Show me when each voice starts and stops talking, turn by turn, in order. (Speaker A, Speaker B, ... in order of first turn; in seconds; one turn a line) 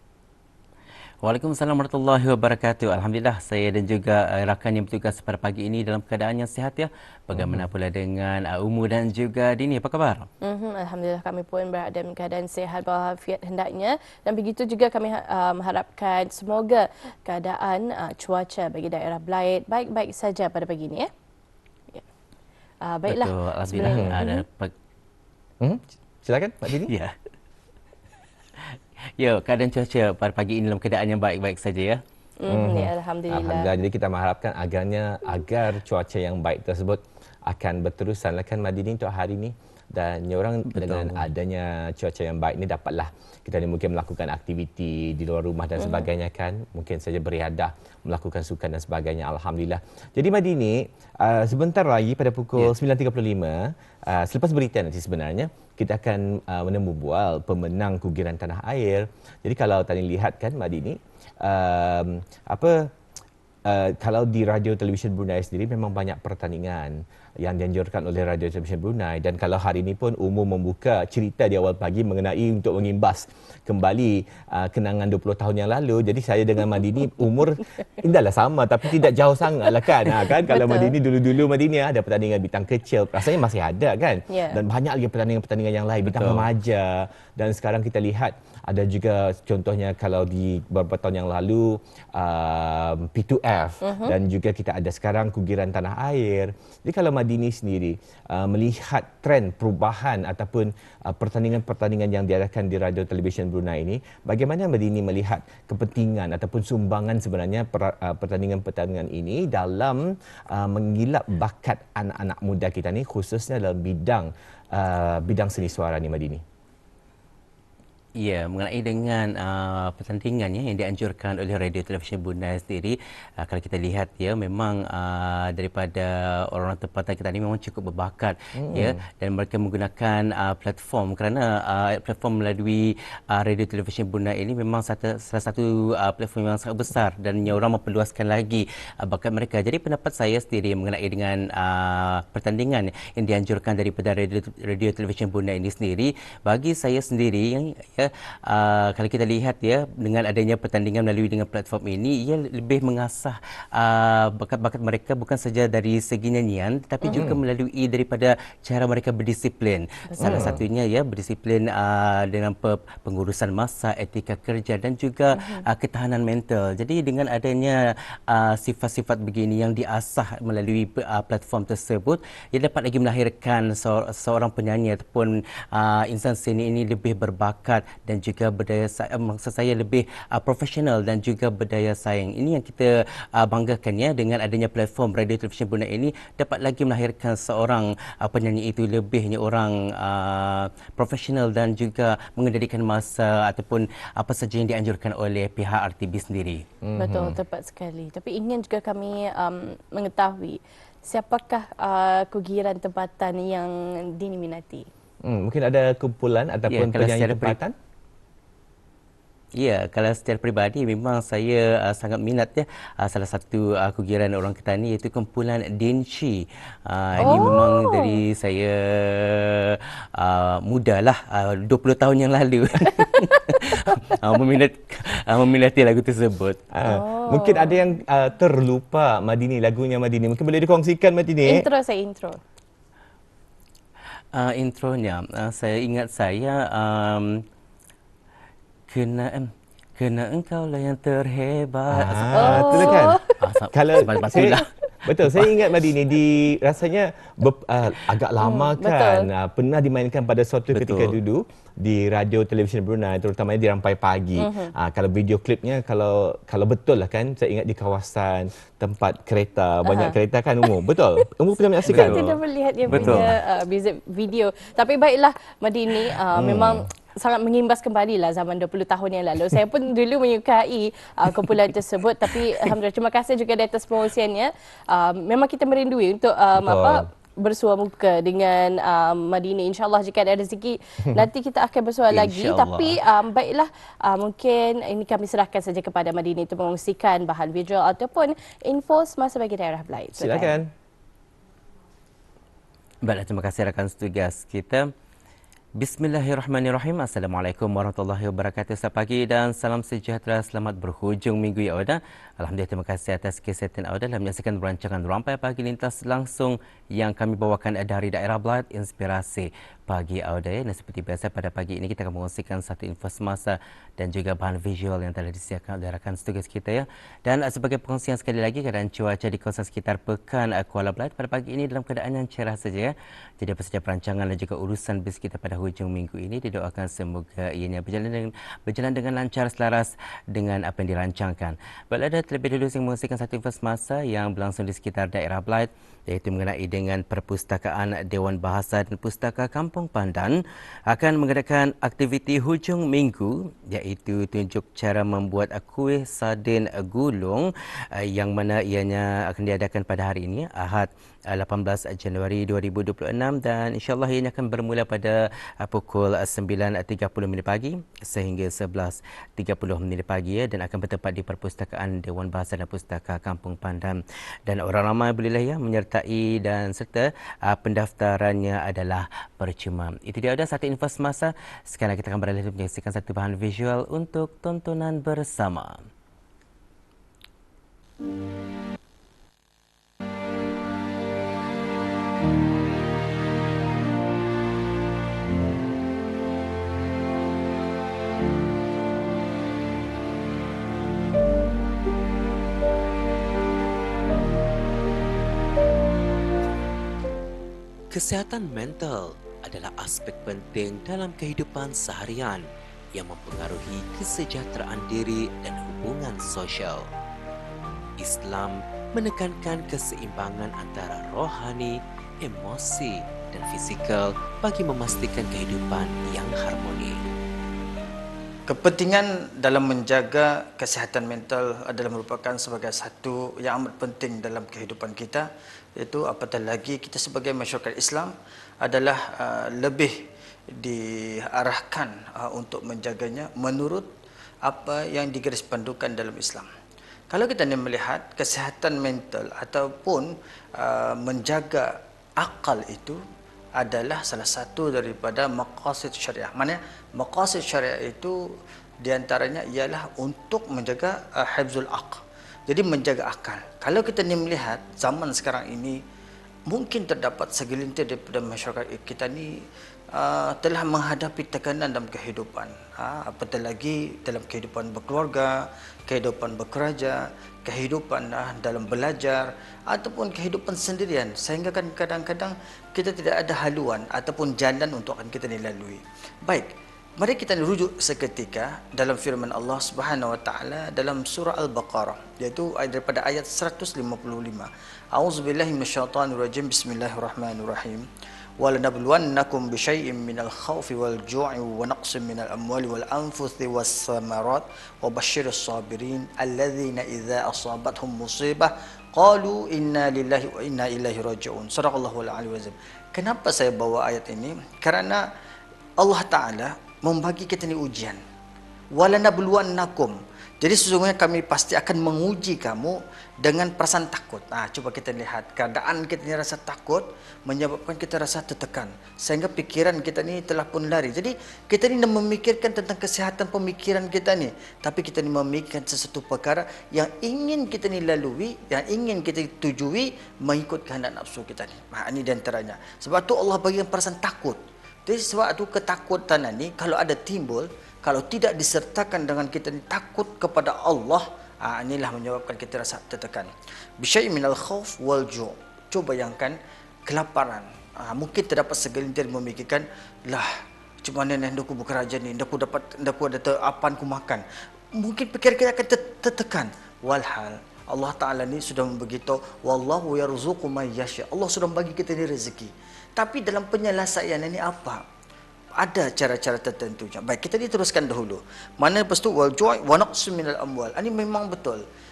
Speaker A: 1.2-10.3
Speaker B: 7.3-7.7
Speaker C: 10.4-21.1
Speaker C: 22.8-24.4
Speaker A: 23.1-24.7
Speaker B: 23.8-24.2
Speaker B: 25.6-26.9
Speaker A: 26.7-27.1
Speaker A: 28.7-32.0
Speaker C: 32.4-33.7
Speaker B: 32.5-62.9
Speaker A: 40.7-41.3
Speaker C: 45.8-46.1
Speaker B: 63.6-116.4
Speaker C: 80.5-80.9
Speaker C: 84.3-84.6
Speaker A: 86.0-86.5
Speaker C: 93.8-94.2
Speaker A: 118.2-196.6
Speaker B: 128.6-129.0
Speaker B: 157.1-157.4
Speaker C: 160.1-160.5
Speaker B: 160.2-160.6
Speaker C: 165.3-165.6
Speaker B: 196.8-197.4
Speaker C: 197.0-204.9
Speaker B: 205.2-207.7
Speaker A: 206.7-207.6
Speaker A: 209.6-226.6
Speaker B: 217.2-217.5
Speaker C: 217.2-218.2
Speaker B: 226.7-231.6
Speaker C: 226.8-227.8
Speaker C: 231.4-232.4
Speaker A: 234.3-237.4
Speaker A: 238.9-245.5
Speaker B: 241.9-243.2
Speaker C: 242.3-243.4
Speaker B: 243.7-262.3
Speaker C: 248.4-249.3
Speaker A: 250.7-251.2
Speaker C: 254.4-254.7
Speaker C: 259.8-260.1
Speaker C: 261.9-290.6
Speaker B: 262.9-263.3
Speaker A: 262.9-263.3
Speaker B: 266.3-266.9
Speaker B: 276.6-277.0
Speaker A: 282.1-283.0
Speaker B: 290.2-290.7
Speaker A: 293.0-294.9
Speaker A: 295.8-340.4
Speaker A: 340.9-375.8
Speaker D: 397.9-406.9
Speaker D: 408.0-417.0
Speaker E: 418.5-425.2
Speaker E: 425.8-429.9
Speaker E: 430.6-433.9
Speaker E: 434.4-436.5
Speaker E: 437.1-441.7
Speaker E: 442.2-443.0
Speaker E: 443.6-448.1
Speaker E: 448.8-455.8
Speaker E: 456.5-459.3
Speaker E: 459.9-487.9
Speaker E: 488.4-505.0
Speaker E: 505.8-508.0
Speaker E: 508.7-550.3
Speaker E: 550.8-554.2
Speaker E: 554.8-564.8
Speaker E: 565.6-571.6